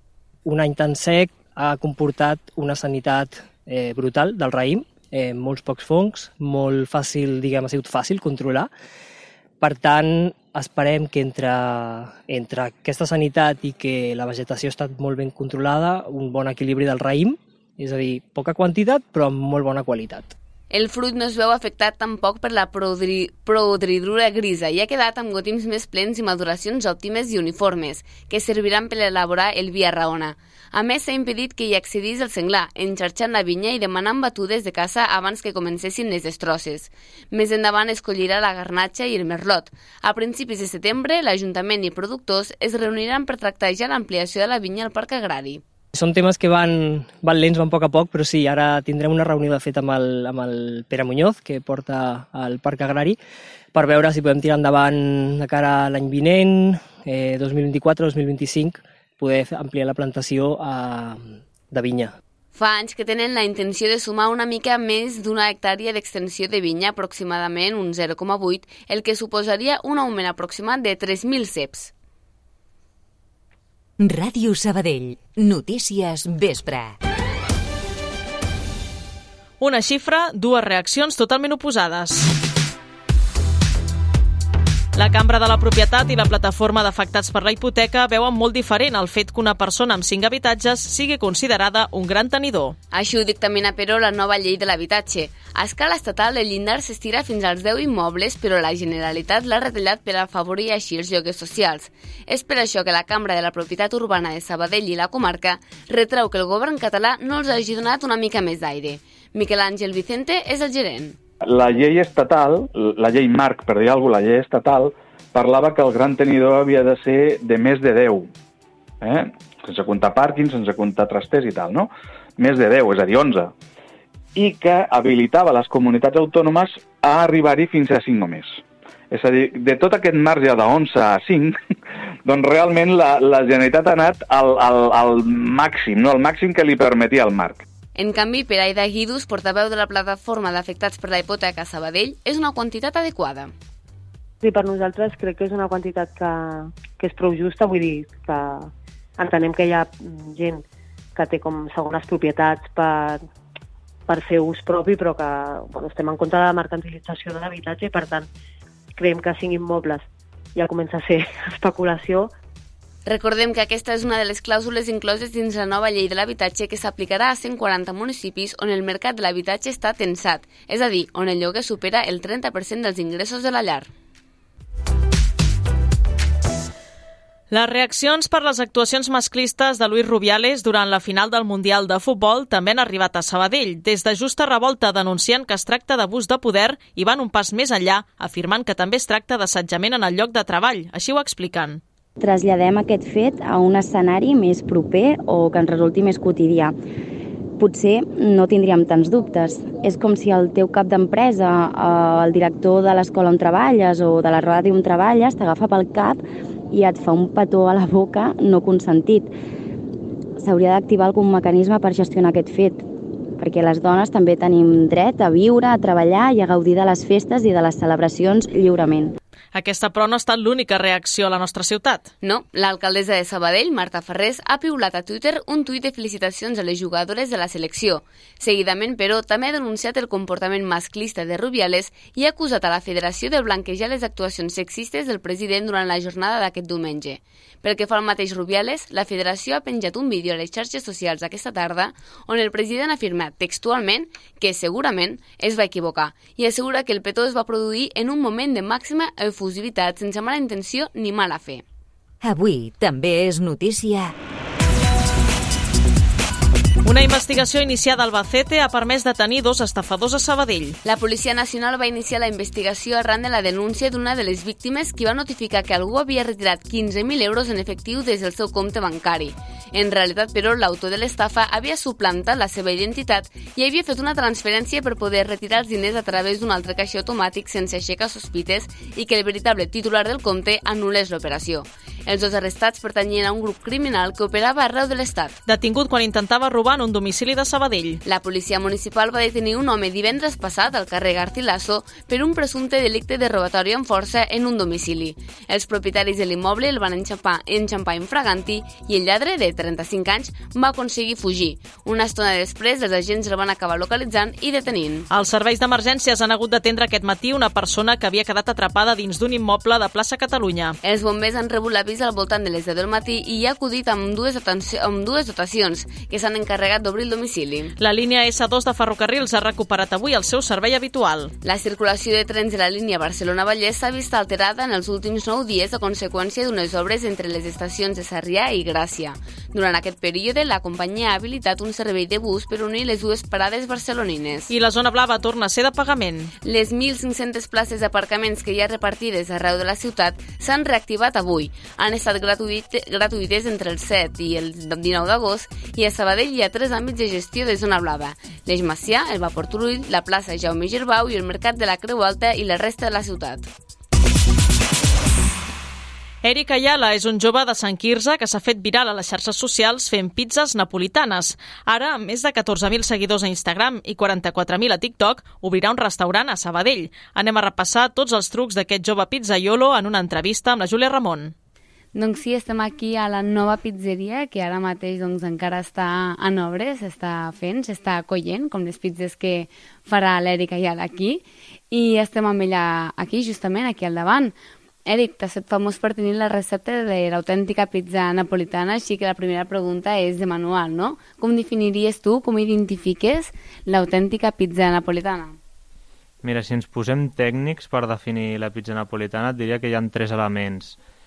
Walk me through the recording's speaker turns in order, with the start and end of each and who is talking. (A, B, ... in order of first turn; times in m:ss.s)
0:00.4-0:08.7 A
0:09.6-0:20.3 A
0:20.7-0:45.6 B
0:45.9-0:53.2 A
0:53.7-1:02.2 A
1:02.5-1:11.9 B
1:14.0-1:17.0 C
1:19.6-1:22.3 D
1:24.9-1:32.8 D
1:32.9-1:51.2 B
1:51.4-1:58.3 E
1:59.0-2:03.5 E
2:04.3-2:11.6 E
2:12.2-2:17.6 E
2:18.0-2:23.5 B
2:24.4-2:30.6 F
2:31.2-2:33.2 F
2:34.1-2:38.3 F
2:39.0-2:42.3 F
2:43.0-2:53.9 B
2:57.5-3:11.8 D
3:12.2-3:16.8 G
3:17.6-3:29.3 G
3:30.4-3:32.8 G
3:33.4-3:39.2 G
3:39.5-3:42.1 D
3:42.2-4:11.6 B
4:12.2-4:14.1 C
4:16.8-4:20.8 D
4:20.8-4:45.3 B
4:45.4-4:48.0 D
4:48.0-5:05.0 B
5:05.1-5:10.8 D
5:10.8-5:17.7 B
5:17.8-5:21.3 D
5:21.4-5:34.5 B
5:34.5-5:36.3 D
5:36.4-5:53.4 B
5:56.2-6:11.3 D
6:11.9-6:24.3 B
6:24.8-6:35.4 B
6:36.2-6:40.8 H